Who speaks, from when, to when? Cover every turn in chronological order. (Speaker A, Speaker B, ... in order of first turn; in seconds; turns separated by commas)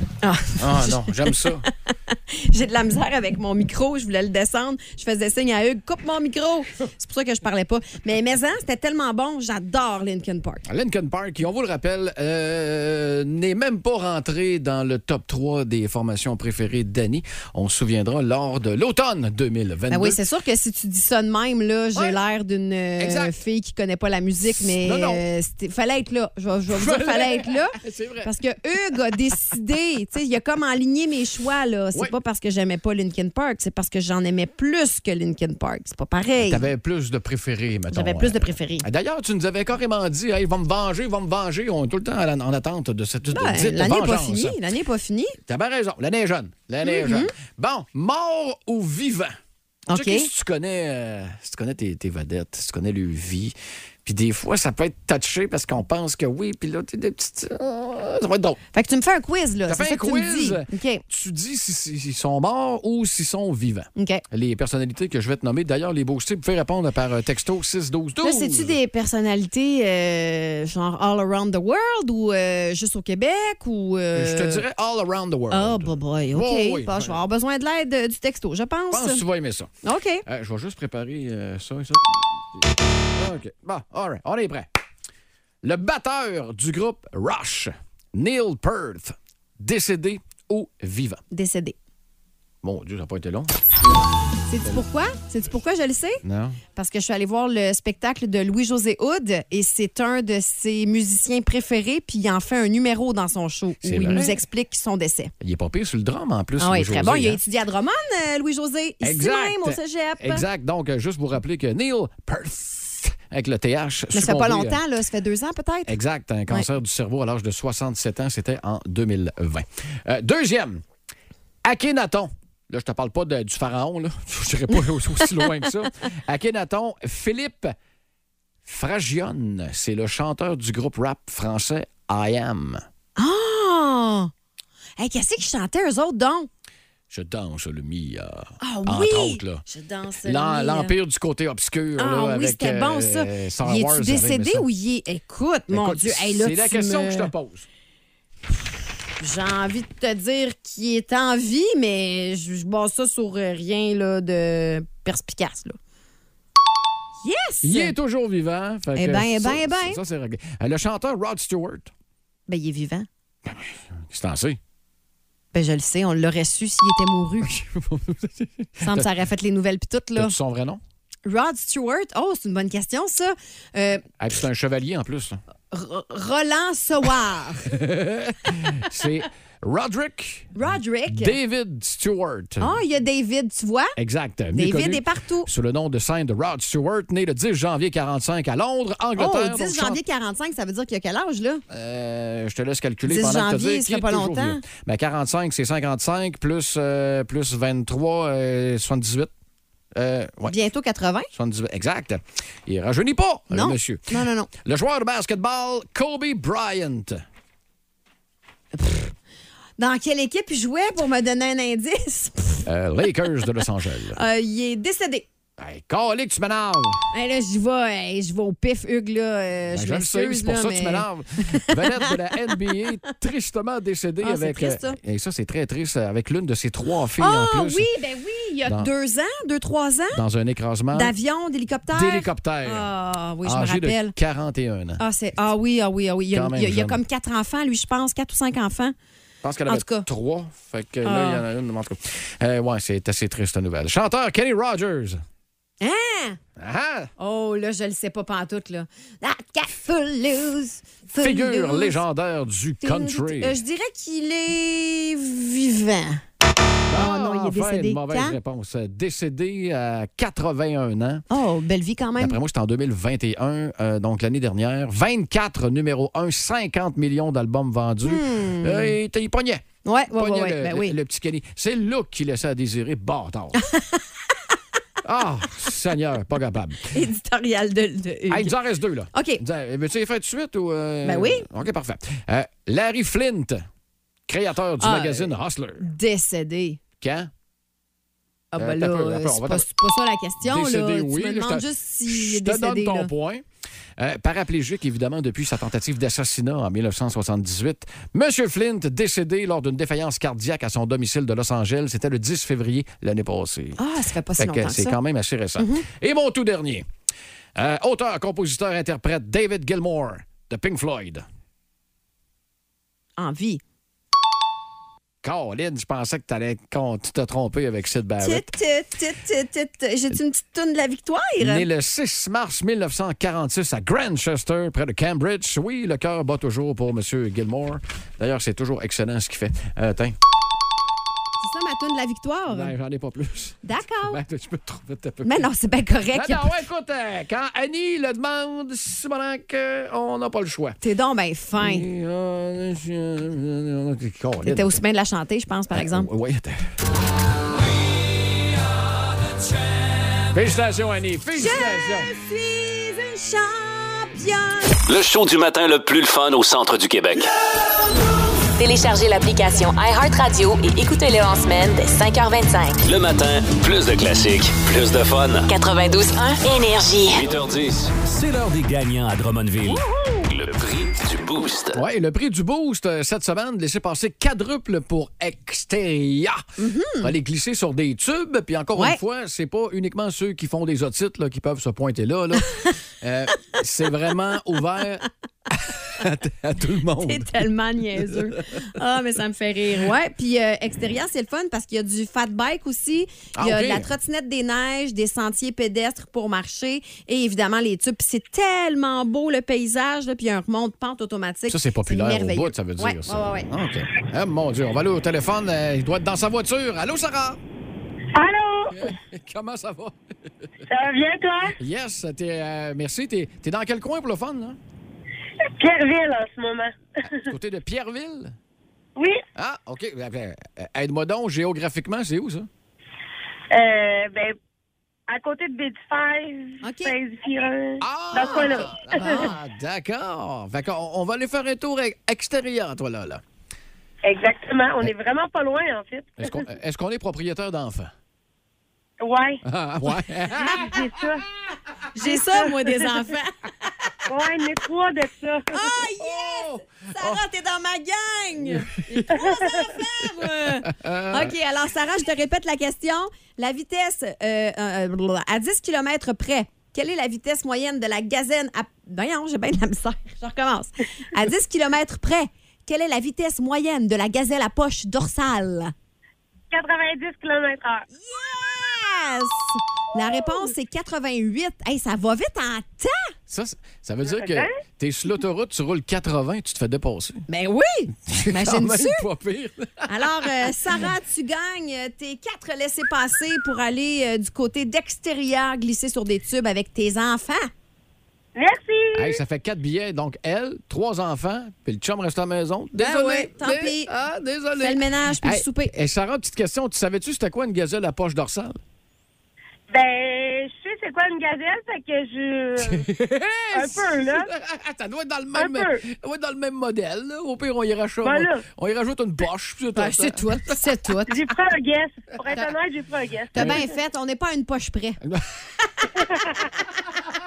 Speaker A: 0.2-10.6, Speaker B: 0.6-1.7, Speaker B: 10.7-20.2, Speaker A: 19.9-36.7, Speaker B: 23.0-23.3, Speaker B: 24.6-25.2, Speaker B: 26.7-28.3, Speaker B: 36.4-44.6, Speaker A: 37.9-38.9, Speaker A: 43.3-45.4, Speaker B: 45.5-49.4, Speaker A: 46.8-47.3, Speaker A: 49.9-50.3, Speaker B: 49.9-58.6, Speaker A: 58.7-61.0, Speaker B: 59.7-68.8, Speaker A: 64.0-64.2, Speaker A: 68.2-74.7, Speaker B: 74.2-77.2, Speaker A: 75.5-79.2, Speaker B: 78.9-79.7, Speaker A: 79.8-80.2, Speaker B: 80.3-84.7, Speaker B: 85.6-91.2, Speaker A: 91.3-91.8, Speaker B: 92.6-93.5, Speaker A: 94.5-96.2, Speaker B: 96.2-96.6, Speaker A: 96.8-105.3, Speaker B: 103.8-104.4, Speaker B: 105.4-107.4, Speaker A: 106.6-110.4, Speaker B: 109.0-114.8, Speaker A: 114.1-116.0, Speaker B: 115.9-120.8, Speaker B: 121.6-127.8, Speaker B: 128.7-132.8, Speaker A: 133.2-134.3, Speaker A: 135.0-136.5, Speaker B: 137.1-139.6, Speaker A: 138.6-140.9, Speaker B: 140.2-144.7, Speaker A: 142.0-147.3, Speaker B: 145.7-147.7, Speaker A: 149.2-155.8, Speaker A: 157.2-157.9, Speaker B: 157.6-161.9, Speaker A: 159.0-160.0, Speaker A: 162.5-163.1, Speaker B: 163.5-164.6, Speaker A: 165.5-167.6, Speaker B: 167.4-169.1, Speaker A: 168.8-170.4, Speaker B: 170.2-170.8, Speaker A: 171.3-174.1, Speaker B: 174.2-175.4, Speaker A: 175.7-177.7, Speaker B: 177.7-182.8, Speaker A: 180.6-181.4, Speaker A: 182.6-184.0, Speaker B: 184.0-190.0, Speaker A: 184.6-185.5, Speaker A: 189.2-191.6, Speaker B: 191.7-199.3, Speaker A: 193.1-194.6, Speaker B: 199.9-200.6, Speaker A: 200.4-201.3, Speaker B: 201.3-207.2, Speaker A: 203.5-204.5, Speaker A: 208.7-209.1, Speaker A: 209.8-212.7, Speaker B: 212.7-214.2, Speaker A: 214.1-215.3, Speaker B: 215.6-217.1, Speaker A: 217.1-222.9, Speaker B: 219.7-227.9, Speaker A: 224.2-225.0, Speaker A: 227.2-230.2, Speaker B: 228.7-228.9, Speaker B: 230.1-231.1, Speaker A: 230.9-234.2, Speaker B: 231.9-232.9, Speaker B: 233.4-235.0, Speaker A: 235.0-238.9, Speaker B: 236.3-237.0, Speaker B: 239.4-245.2, Speaker A: 239.7-240.1, Speaker A: 241.0-241.4, Speaker A: 245.8-246.4, Speaker B: 246.6-247.1, Speaker A: 247.2-252.0, Speaker B: 251.1-253.6, Speaker A: 252.8-256.2, Speaker B: 256.9-261.2, Speaker A: 256.9-258.4, Speaker A: 261.3-262.4, Speaker B: 262.2-273.6, Speaker A: 268.0-269.0, Speaker A: 269.8-270.9, Speaker A: 273.6-274.3, Speaker B: 275.0-277.0, Speaker A: 276.9-278.6, Speaker B: 278.3-283.7, Speaker A: 279.1-279.4, Speaker A: 281.0-281.5, Speaker B: 284.3-285.9, Speaker A: 284.8-286.8, Speaker B: 287.0-287.3, Speaker A: 288.5-293.1, Speaker B: 288.6-289.7, Speaker B: 290.4-293.4, Speaker B: 294.0-303.8, Speaker A: 303.8-305.0, Speaker B: 304.4-306.9, Speaker A: 305.6-305.9, Speaker B: 307.6-311.2, Speaker A: 313.2-313.6, Speaker B: 315.2-318.5, Speaker A: 318.2-321.7, Speaker B: 321.4-330.2, Speaker A: 331.4-332.7, Speaker B: 332.5-335.4, Speaker A: 333.6-334.2, Speaker A: 335.2-336.5, Speaker B: 336.1-340.8, Speaker A: 340.8-341.9, Speaker B: 341.6-344.8, Speaker A: 344.4-346.1, Speaker B: 345.7-346.6, Speaker B: 350.3-352.1, Speaker A: 351.4-354.8, Speaker C: 354.9-357.3, Speaker D: 358.6-362.8, Speaker C: 362.9-365.5, Speaker D: 365.5-367.3, Speaker C: 367.1-371.8, Speaker B: 371.7-376.4, Speaker A: 376.6-377.2, Speaker B: 377.0-387.5, Speaker A: 378.8-379.0, Speaker A: 387.0-403.5, Speaker B: 388.0-388.7, Speaker B: 393.4-393.9, Speaker B: 401.5-407.4, Speaker E: 408.1-408.9, Speaker B: 408.7-410.0, Speaker E: 410.7-411.6, Speaker B: 411.6-414.6, Speaker E: 415.6-417.3, Speaker B: 417.2-418.4, Speaker E: 419.0-419.2, Speaker B: 419.4-422.5, Speaker E: 423.5-424.4, Speaker E: 425.1-429.3, Speaker A: 426.6-427.0, Speaker B: 427.8-433.2, Speaker A: 428.2-429.3, Speaker E: 434.1-436.5, Speaker B: 436.2-437.9, Speaker E: 439.0-439.4, Speaker B: 439.4-441.1, Speaker E: 440.5-441.2, Speaker A: 441.9-443.9, Speaker E: 442.0-443.0, Speaker E: 444.1-445.5, Speaker A: 445.5-465.7, Speaker B: 446.0-447.2, Speaker B: 448.4-449.2, Speaker E: 449.1-449.7, Speaker B: 450.1-451.4, Speaker E: 466.5-467.9, Speaker A: 467.9-473.1, Speaker B: 473.3-477.2, Speaker E: 474.1-474.6, Speaker A: 477.3-479.1, Speaker B: 478.1-480.8, Speaker A: 479.9-487.5, Speaker E: 488.4-489.2, Speaker B: 488.9-498.6, Speaker A: 492.8-493.9, Speaker A: 494.6-495.7, Speaker E: 499.7-502.9, Speaker B: 502.6-510.6, Speaker E: 503.5-504.3, Speaker E: 505.4-505.8, Speaker E: 508.0-508.4, Speaker A: 509.8-511.2, Speaker E: 511.1-513.7, Speaker A: 513.3-515.0, Speaker B: 513.4-513.7, Speaker E: 516.0-516.4